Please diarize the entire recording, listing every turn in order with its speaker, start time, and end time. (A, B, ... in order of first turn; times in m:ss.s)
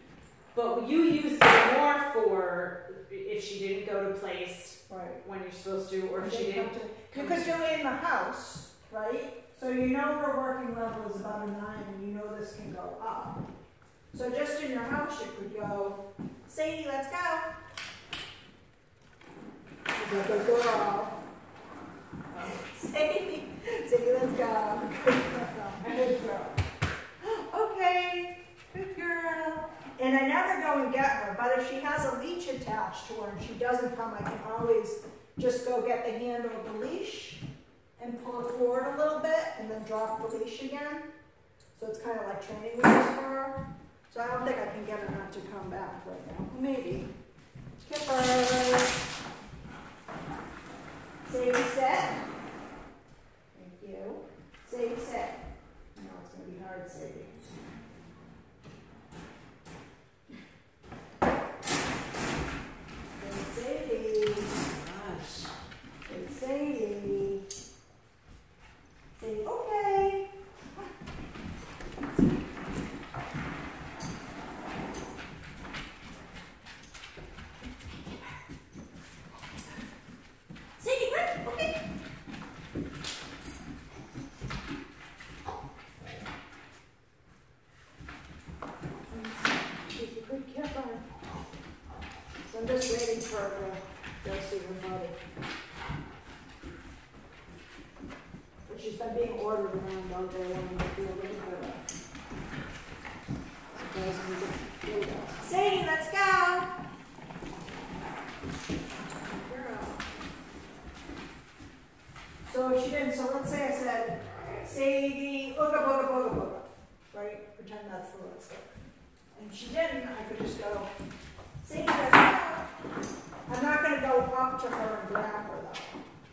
0:00.5-0:07.6 A
0:04.9-0:05.2 B
0:06.2-0:13.4 B
0:14.1-0:17.5 B
0:20.0-0:21.2 B
0:22.3-0:22.6 A
0:22.5-0:26.6 B
0:27.2-0:37.4 B
0:28.8-0:29.6 A
0:38.0-0:41.1 B
0:41.7-0:43.6 B
0:44.1-0:47.1 B
0:47.8-0:49.0 B
0:51.2-0:52.2 B
0:53.5-0:55.4 B
0:55.9-0:57.4 B
1:03.2-1:04.5 B
1:04.6-1:05.5 A
1:06.0-1:07.4 B
1:09.2-1:10.9 B
1:20.8-1:21.8 B
1:29.1-1:31.1 B
1:32.4-1:35.2 B
1:38.6-1:41.8 B
1:43.7-1:46.7 B
1:49.4-1:50.0 B
1:52.4-2:00.9 B
2:01.6-2:02.7 B
2:03.5-2:06.0 B